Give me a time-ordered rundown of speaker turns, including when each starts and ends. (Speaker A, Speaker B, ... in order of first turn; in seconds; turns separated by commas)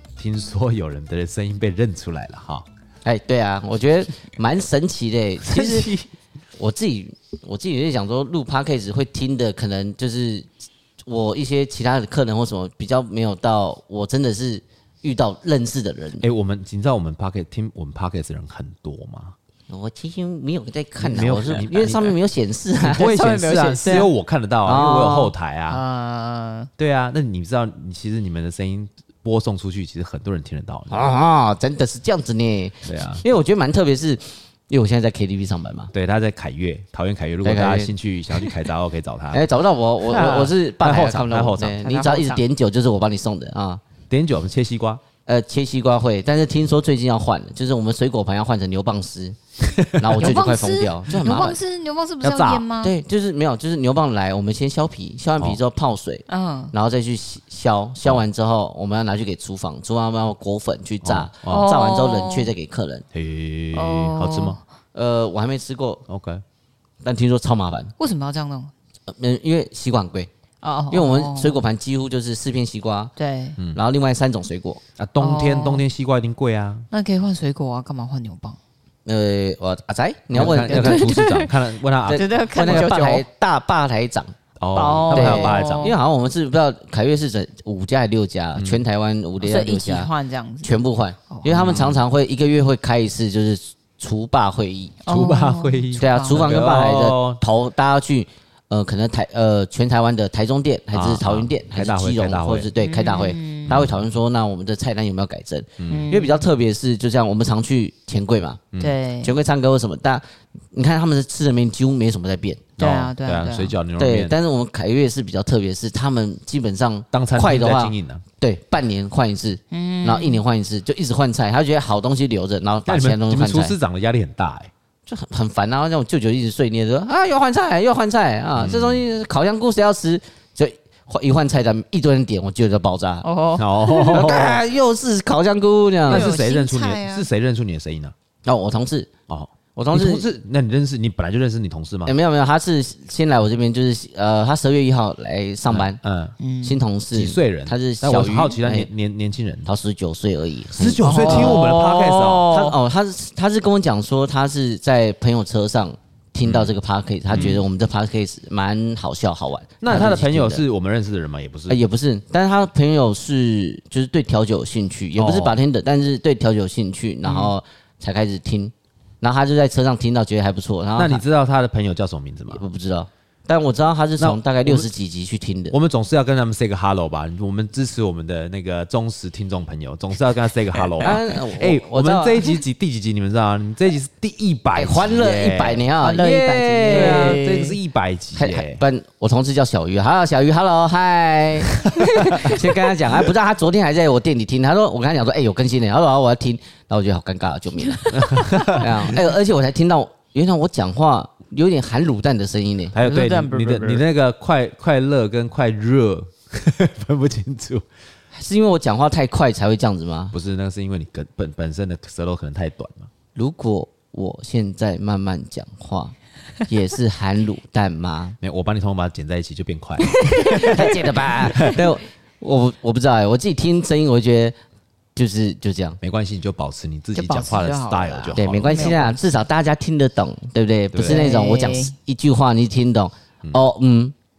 Speaker A: 0.2-2.7, Speaker B: 3.0-5.9, Speaker A: 5.4-6.1, Speaker B: 6.6-10.5, Speaker B: 11.1-16.3, Speaker A: 16.2-19.4, Speaker B: 19.7-23.2, Speaker A: 21.0-22.2, Speaker A: 22.8-25.8, Speaker C: 23.0-24.1, Speaker B: 23.8-24.1, Speaker B: 24.6-25.3, Speaker C: 25.7-26.7, Speaker A: 26.8-31.1, Speaker B: 30.9-35.9, Speaker A: 32.9-33.2, Speaker A: 35.9-39.4, Speaker B: 37.4-38.5, Speaker B: 39.3-43.8, Speaker A: 40.0-41.8, Speaker C: 41.8-42.4, Speaker A: 44.1-45.0, Speaker B: 45.3-49.4, Speaker A: 49.6-50.3, Speaker B: 50.0-51.6, Speaker C: 50.2-52.9, Speaker A: 52.2-52.7, Speaker B: 52.8-63.0, Speaker C: 56.3-56.7, Speaker A: 61.0-61.7, Speaker C: 61.5-62.5, Speaker A: 63.1-64.6, Speaker C: 63.7-64.6, Speaker B: 64.9-66.0, Speaker A: 66.1-66.4, Speaker B: 67.0-67.9, Speaker C: 68.0-68.7, Speaker B: 69.1-70.3, Speaker C: 70.6-71.6, Speaker B: 70.9-73.1, Speaker C: 73.2-73.6, Speaker B: 73.7-74.8, Speaker A: 75.0-76.9, Speaker C: 75.2-75.8, Speaker C: 76.9-78.6, Speaker B: 79.1-81.2, Speaker A: 80.3-82.9, Speaker C: 80.4-83.3, Speaker B: 82.1-84.3, Speaker A: 84.6-86.0, Speaker C: 84.8-85.9, Speaker B: 85.1-90.1, Speaker A: 88.5-88.8, Speaker C: 89.4-91.8, Speaker B: 90.6-95.0, Speaker A: 91.5-92.0, Speaker C: 95.0-96.4, Speaker A: 95.1-97.4, Speaker B: 96.0-108.6, Speaker A: 100.9-102.7, Speaker C: 102.8-103.8, Speaker A: 103.7-104.0, Speaker A: 105.8-106.1, Speaker C: 105.9-106.4, Speaker C: 108.8-109.3, Speaker B: 109.2-110.2, Speaker B: 110.7-112.7, Speaker A: 112.8-114.3, Speaker C: 112.8-113.8, Speaker B: 114.0-123.8, Speaker A: 117.1-118.2, Speaker C: 119.7-120.4, Speaker A: 122.9-124.7, Speaker B: 125.1-133.3, Speaker A: 128.6-129.1, Speaker C: 133.2-134.4, Speaker A: 133.6-134.6, Speaker B: 134.1-136.3, Speaker C: 136.1-137.3, Speaker A: 136.1-138.1, Speaker B: 138.4-139.1, Speaker A: 139.3-142.1, Speaker B: 139.8-140.3, Speaker B: 142.1-146.0, Speaker A: 145.7-146.3, Speaker C: 146.4-146.8, Speaker B: 146.6-148.9, Speaker A: 147.1-149.7, Speaker B: 149.7-151.8, Speaker A: 150.7-152.5, Speaker C: 151.0-152.7, Speaker B: 152.4-160.6, Speaker A: 156.4-156.7, Speaker A: 157.3-157.6, Speaker A: 159.8-161.8, Speaker B: 161.7-171.2, Speaker A: 165.2-165.6, Speaker C: 167.2-167.5, Speaker A: 171.0-172.6, Speaker B: 172.5-175.8, Speaker A: 174.2-174.9, Speaker A: 175.7-185.8, Speaker B: 181.0-182.6, Speaker B: 184.8-187.4, Speaker C: 186.0-187.8, Speaker A: 186.9-188.8, Speaker B: 188.3-203.0, Speaker A: 191.7-192.6, Speaker A: 198.1-199.2, Speaker C: 198.5-198.8, Speaker A: 202.9-207.8, Speaker C: 203.0-204.1, Speaker B: 208.3-210.3, Speaker A: 210.3-213.1, Speaker B: 213.4-216.2, Speaker B: 216.7-218.4, Speaker A: 218.4-221.8, Speaker C: 220.2-221.0, Speaker B: 220.6-224.6, Speaker B: 225.2-226.0, Speaker A: 226.0-228.9, Speaker C: 227.1-229.2, Speaker B: 228.3-234.1, Speaker A: 230.9-231.2, Speaker C: 231.0-231.9